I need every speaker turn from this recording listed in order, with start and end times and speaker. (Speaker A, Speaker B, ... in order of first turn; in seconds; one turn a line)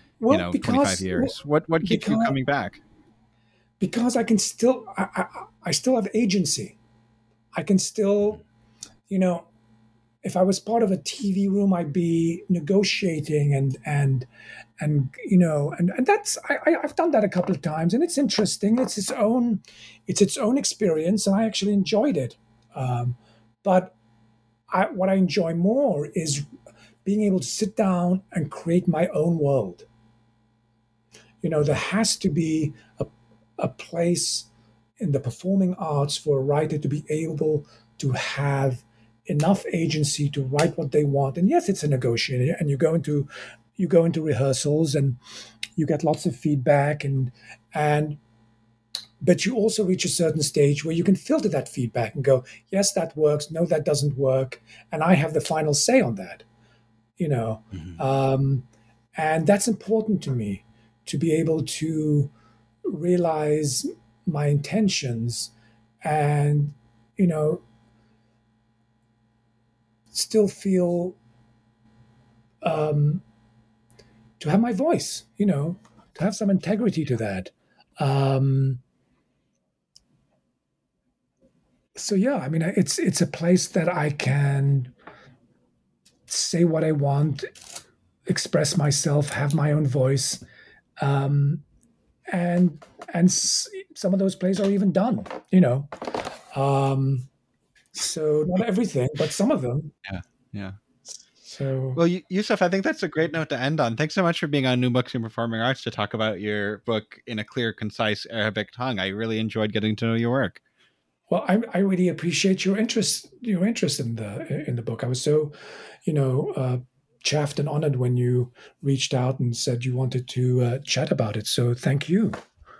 Speaker A: 0.2-2.3
Speaker B: 0.3-2.8
Speaker A: 3.8-6.8
Speaker A: 7.5-8.4
Speaker A: 9.1-9.5
Speaker A: 10.2-14.3
Speaker A: 14.8-23.9
Speaker A: 24.7-26.5
Speaker A: 27.0-29.9
Speaker A: 31.4-34.5
Speaker A: 35.0-45.2
Speaker A: 45.8-48.2
Speaker A: 49.2-56.4
Speaker A: 57.2-62.3
Speaker B: 57.7-58.0
Speaker A: 62.9-65.5
Speaker A: 66.0-67.6
Speaker A: 70.1-71.2
Speaker A: 72.6-73.2
Speaker A: 74.4-78.8
Speaker A: 81.9-84.9
Speaker A: 86.3-87.5
Speaker A: 88.3-90.4
Speaker A: 91.0-91.6
Speaker A: 92.3-97.3
Speaker A: 97.9-99.9
Speaker B: 100.1-100.8
Speaker A: 101.4-102.0
Speaker B: 102.0-110.6
Speaker A: 111.3-115.5
Speaker A: 116.0-122.4